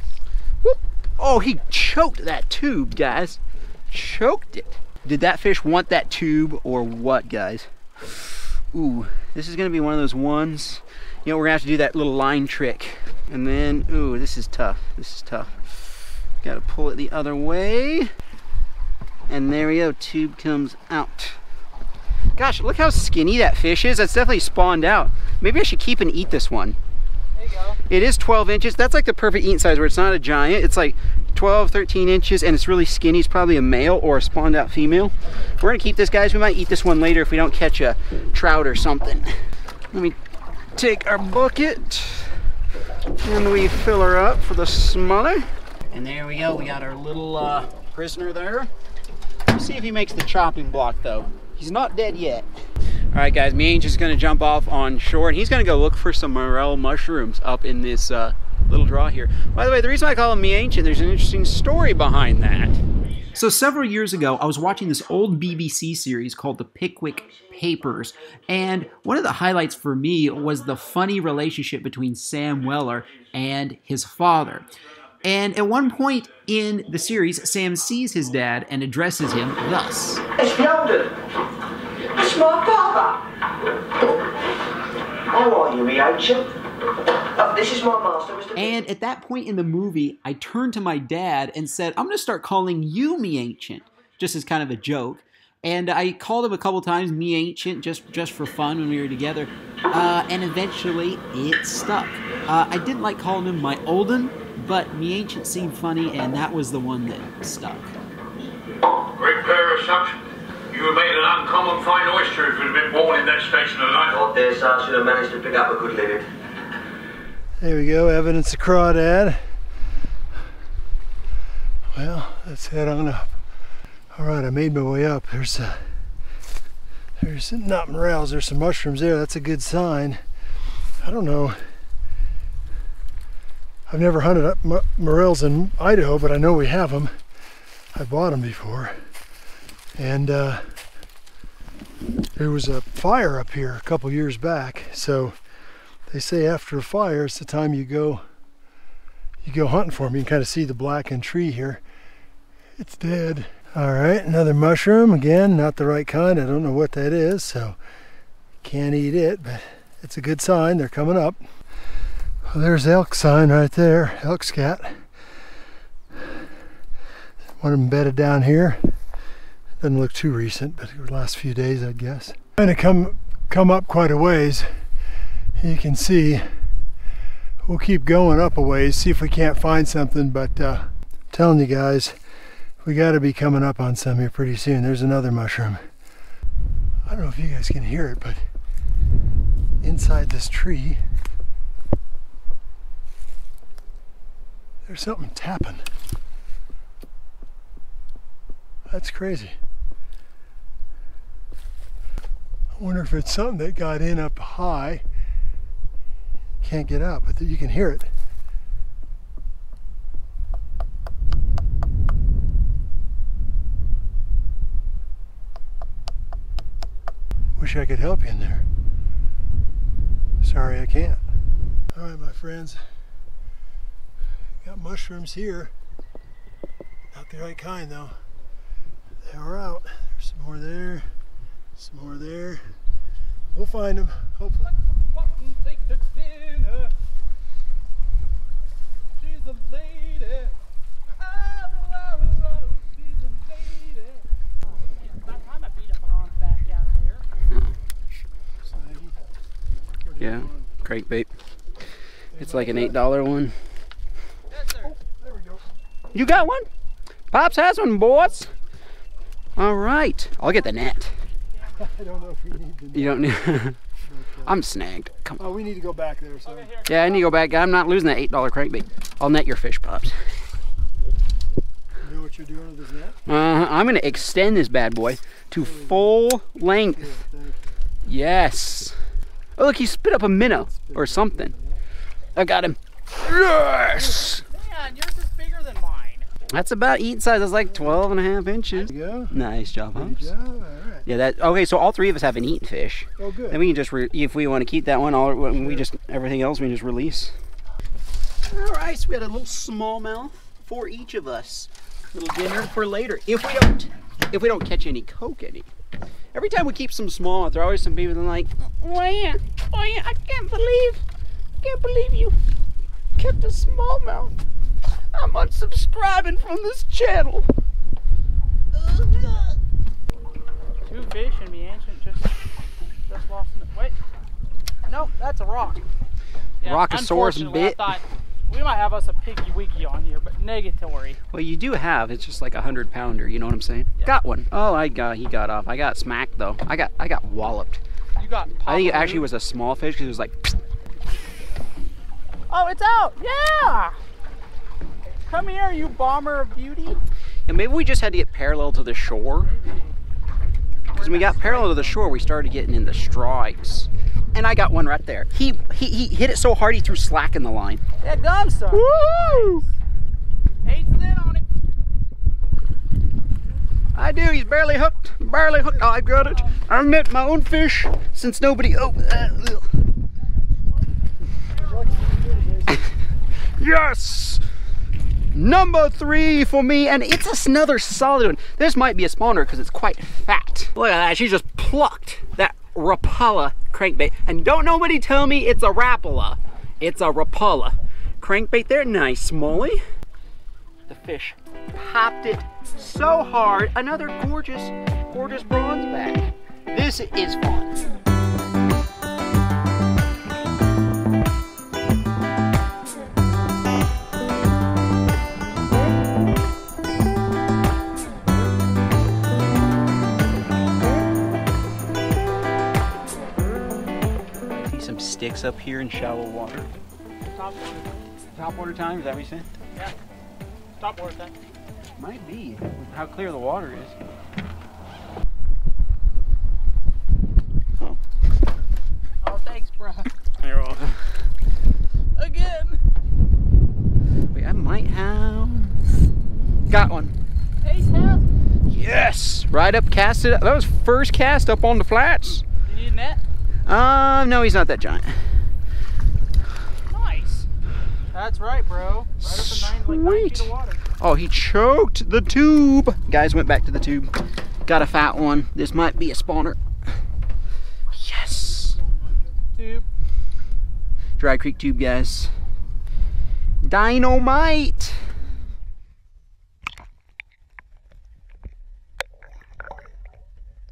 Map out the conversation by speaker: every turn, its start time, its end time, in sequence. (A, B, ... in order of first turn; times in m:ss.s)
0:00.6-0:15.6 A
0:16.4-0:18.1 A
0:19.3-0:21.4 A
0:22.3-0:26.8 A
0:27.3-0:27.8 B
0:27.9-0:39.4 A
0:39.9-0:40.2 A
0:40.7-0:42.4 A
0:43.2-0:48.7 A
0:49.5-0:52.5 A
0:53.1-1:02.8 A
1:03.3-1:14.7 A
1:15.2-1:20.4 A
1:20.5-1:21.2 C
1:22.2-1:23.3 C
1:25.3-1:26.5 C
1:27.4-1:28.5 C
1:27.5-1:28.1 D
1:28.5-1:47.9 A
1:49.0-1:56.2 D
1:54.4-1:56.2 C
1:57.6-1:59.4 E
2:01.9-2:03.4 E
2:04.1-2:05.9 E
2:07.2-2:10.2 E
2:11.0-2:11.7 E
2:13.9-2:17.2 E
2:17.9-2:19.0 E
2:20.0-2:20.8 E
2:22.3-2:25.4 E
2:26.1-2:28.2 E
2:29.4-2:31.8 E
2:32.8-2:37.8 E
2:38.6-2:41.4 E
2:42.4-2:45.1 E
2:46.2-2:46.4 E
2:47.6-2:49.0 E
2:49.8-2:54.8 E
2:55.6-2:56.6 E
2:57.6-3:02.2 E
3:02.8-3:05.9 E
3:07.1-3:08.4 E
3:09.8-3:11.0 E
3:14.8-3:15.9 E
3:18.9-3:19.6 E
3:22.8-3:25.0 E
3:26.6-3:28.1 E
3:37.6-3:38.6 E
3:40.4-3:41.2 E
3:41.9-3:42.8 E
3:44.6-3:45.7 E
3:47.1-3:48.2 E
3:49.2-3:51.2 E
3:51.8-3:52.8 E
3:53.5-3:54.7 E
3:54.6-3:56.9 B
3:59.2-4:00.5 B
4:01.2-4:07.2 B
4:07.5-4:07.8 A
4:08.6-4:09.2 E
4:10.0-4:10.7 E
4:10.2-4:11.3 A
4:12.3-4:13.0 E
4:12.4-4:13.6 A
4:14.5-4:15.0 B
4:14.8-4:16.5 E
4:16.1-4:16.7 A
4:17.3-4:18.5 A
4:19.6-4:21.1 A
4:20.5-4:20.7 B
4:21.4-4:22.1 B
4:21.8-4:24.6 E
4:22.9-4:23.8 A
4:24.4-4:25.4 A
4:25.4-4:26.7 E
4:26.4-4:27.5 B
4:26.9-4:30.2 A
4:32.0-4:34.3 E
4:33.3-4:37.2 A
4:35.5-4:36.1 E
4:36.9-4:37.8 E
4:38.0-4:39.0 A
4:39.6-4:41.5 A
4:40.5-4:41.8 E
4:42.3-4:44.4 A
4:43.9-4:44.3 E
4:44.4-4:46.3 B
4:46.5-4:50.3 A
4:47.6-4:48.1 E
4:48.7-4:49.3 E
4:49.9-4:51.0 E
4:51.0-4:57.3 A
4:53.2-4:53.6 E
4:55.6-4:55.8 E
4:58.5-5:05.7 A
5:06.3-5:11.0 A
5:11.6-5:12.4 A
5:13.2-5:14.4 A
5:15.1-5:17.5 A
5:18.7-5:19.6 B
5:20.8-5:22.4 B
5:23.1-5:24.0 B
5:24.8-5:25.8 B
5:26.6-5:31.2 B
5:26.6-5:27.8 A
5:31.3-5:37.8 A
5:38.2-5:39.3 B
5:38.6-5:40.6 A
5:42.5-5:44.0 B
5:45.3-5:47.0 B
5:47.5-5:49.5 A
5:49.4-5:50.0 B
5:50.9-5:52.1 B
5:51.0-5:57.8 A
5:58.0-5:59.7 B
5:58.7-5:59.6 A
6:00.6-6:01.4 B
6:03.9-6:09.7 A
6:06.1-6:06.6 B
6:11.3-6:12.6 B
6:11.6-6:12.9 E
6:13.4-6:14.4 A
6:15.3-6:29.8 A
6:30.9-6:37.8 A
6:54.5-6:56.7 A
6:57.3-6:57.9 B
6:58.3-6:59.5 A
7:00.8-7:01.3 B
7:02.0-7:04.0 A
7:09.2-7:10.1 B
7:10.4-7:11.2 A
7:12.1-7:12.8 B
7:14.3-7:15.8 A
7:16.7-7:17.2 A
7:17.6-7:18.3 B
7:18.7-7:22.4 A
7:22.6-7:23.2 B
7:23.6-7:25.3 A
7:26.9-7:27.5 B
7:28.1-7:30.8 B
7:29.2-7:36.6 A
7:37.9-7:38.8 A
7:38.3-7:39.4 E
7:39.6-7:39.8 B
7:41.2-7:42.3 A
7:43.6-7:45.1 A